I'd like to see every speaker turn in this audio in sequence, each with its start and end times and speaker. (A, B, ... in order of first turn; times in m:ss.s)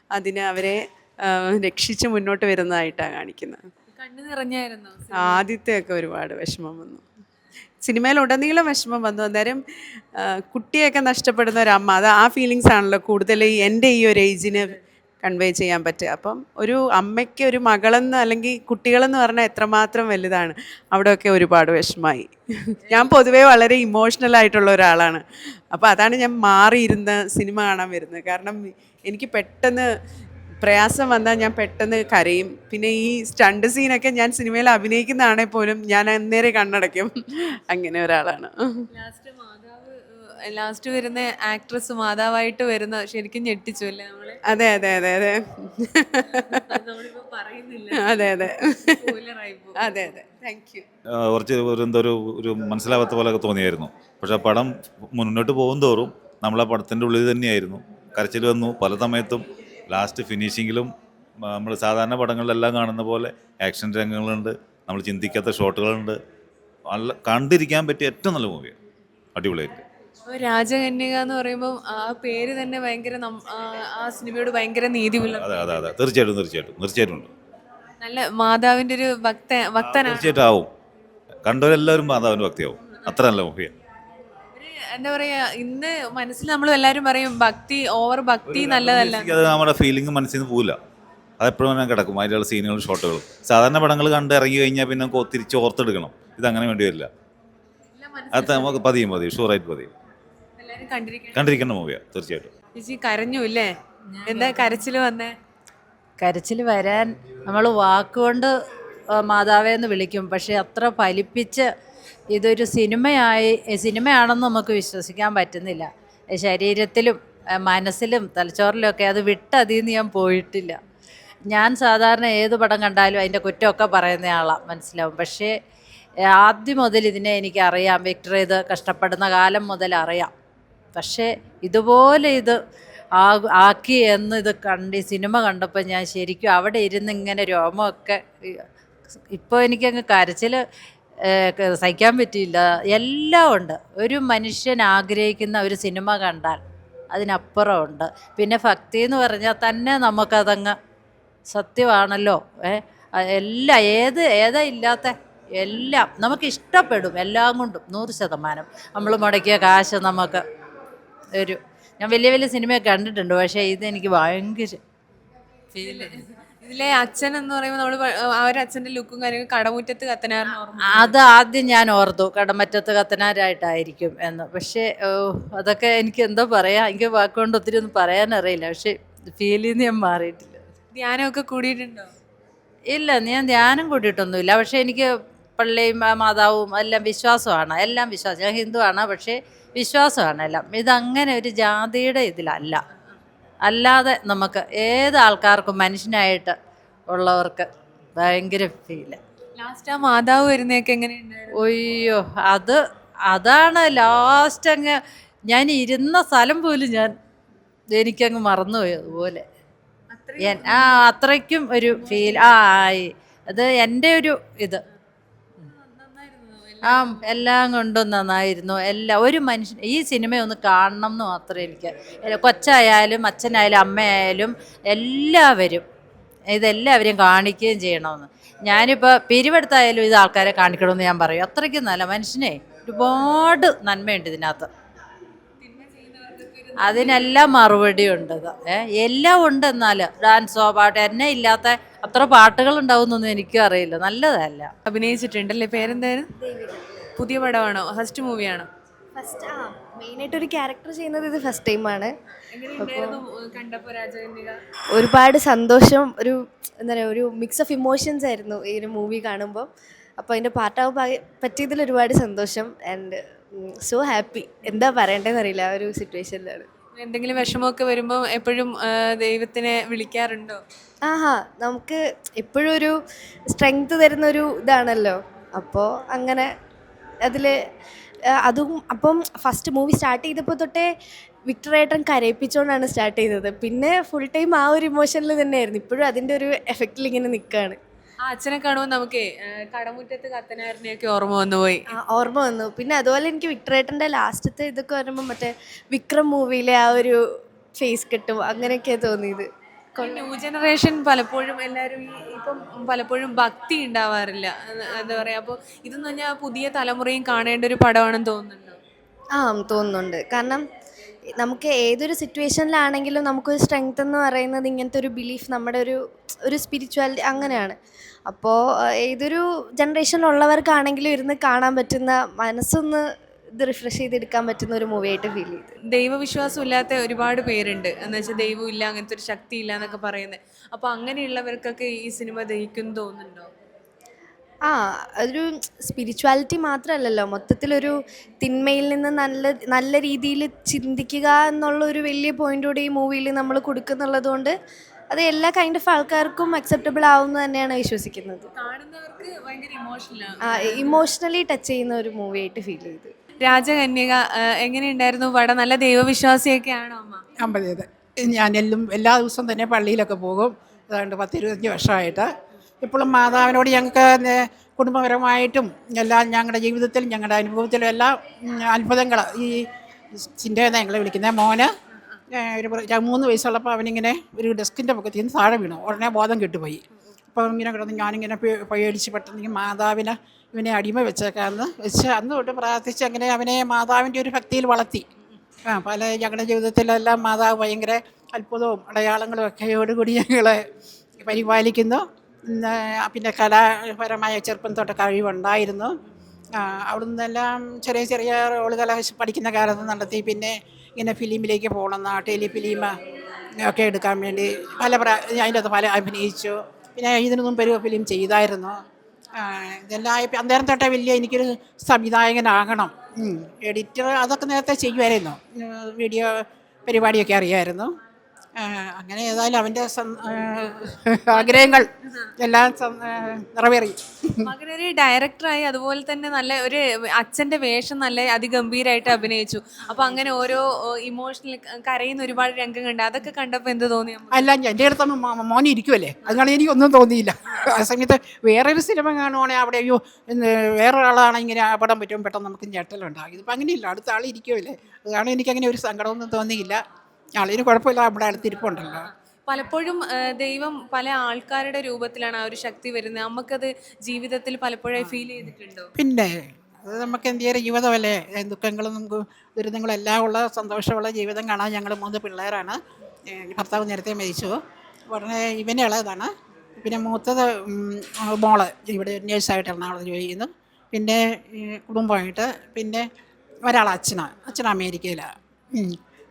0:00.1-0:03.7 A
0:03.9-0:05.4 B
0:05.2-0:07.0 A
0:07.8-0:09.6 A
0:10.2-0:22.3 A
0:14.5-0:14.8 B
0:22.8-0:23.1 B
0:22.9-0:29.9 A
0:30.6-0:38.9 A
0:38.9-0:44.4 B
0:44.5-0:46.8 A
0:46.2-0:50.0 B
0:48.0-0:49.1 A
0:49.8-0:50.8 A
0:51.1-1:06.2 C
1:06.9-1:08.8 C
1:09.4-1:09.8 C
1:10.3-1:15.9 B
1:15.2-1:17.3 C
1:18.0-1:20.3 B
1:19.8-1:20.7 C
1:21.4-1:23.7 C
1:24.6-1:29.4 B
1:28.5-1:30.8 C
1:31.4-1:37.1 C
1:38.0-1:38.8 B
1:38.3-1:39.9 C
1:40.6-1:41.6 B
1:41.3-1:42.5 C
1:42.8-1:43.7 B
1:44.2-1:45.4 B
1:46.2-1:48.5 D
1:49.2-1:51.7 D
1:52.3-2:00.8 D
2:01.5-2:05.5 D
2:06.4-2:10.3 D
2:11.0-2:12.6 D
2:13.2-2:18.6 D
2:19.3-2:20.6 D
2:21.2-2:26.6 D
2:27.1-2:30.8 D
2:31.5-2:40.4 D
2:41.4-2:44.8 D
2:45.7-2:46.1 D
2:45.8-2:51.2 B
2:50.8-3:00.7 D
3:00.9-3:02.1 B
3:02.9-3:12.8 D
3:13.7-3:16.6 D
3:17.1-3:19.2 D
3:19.6-3:21.5 B
3:21.6-3:22.8 D
3:23.3-3:27.2 D
3:28.0-3:29.4 D
3:30.1-3:31.0 B
3:30.4-3:34.8 D
3:31.9-3:32.6 B
3:35.7-3:37.2 B
3:36.8-3:45.8 D
3:46.5-3:54.7 D
3:55.6-3:57.4 B
3:56.8-4:04.7 D
4:04.9-4:06.3 B
4:05.8-4:06.8 E
4:07.2-4:08.7 B
4:09.2-4:12.1 E
4:12.5-4:14.6 B
4:12.8-4:13.2 E
4:14.9-4:19.7 E
4:20.2-4:26.7 E
4:27.0-4:30.6 B
4:31.0-4:33.0 E
4:33.5-4:36.5 E
4:37.2-4:37.6 E
4:38.3-4:40.9 E
4:41.5-4:47.8 E
4:48.3-4:51.8 B
4:52.0-4:57.2 E
4:57.8-4:59.5 E
5:00.0-5:08.8 B
5:09.4-5:10.6 E
5:11.4-5:23.0 E
5:23.6-5:25.7 E
5:25.9-5:33.5 B
5:34.7-5:44.5 E
5:45.1-5:48.5 E
5:48.5-5:51.0 B
5:50.5-5:53.1 E
5:53.4-5:57.2 B
5:57.4-6:02.3 F
6:02.8-6:11.7 F
6:12.3-6:16.8 F
6:17.3-6:25.1 F
6:25.7-6:30.6 F
6:31.2-6:36.0 F
6:36.6-6:42.9 F
6:43.6-6:48.8 F
6:49.4-6:57.9 F
6:58.6-7:04.5 F
7:01.3-7:02.3 B
7:04.4-7:14.5 B
7:14.3-7:26.8 F
7:27.4-7:29.1 F
7:29.5-7:35.9 B
7:36.0-7:44.6 F
7:45.1-7:53.1 F
7:53.7-7:56.0 F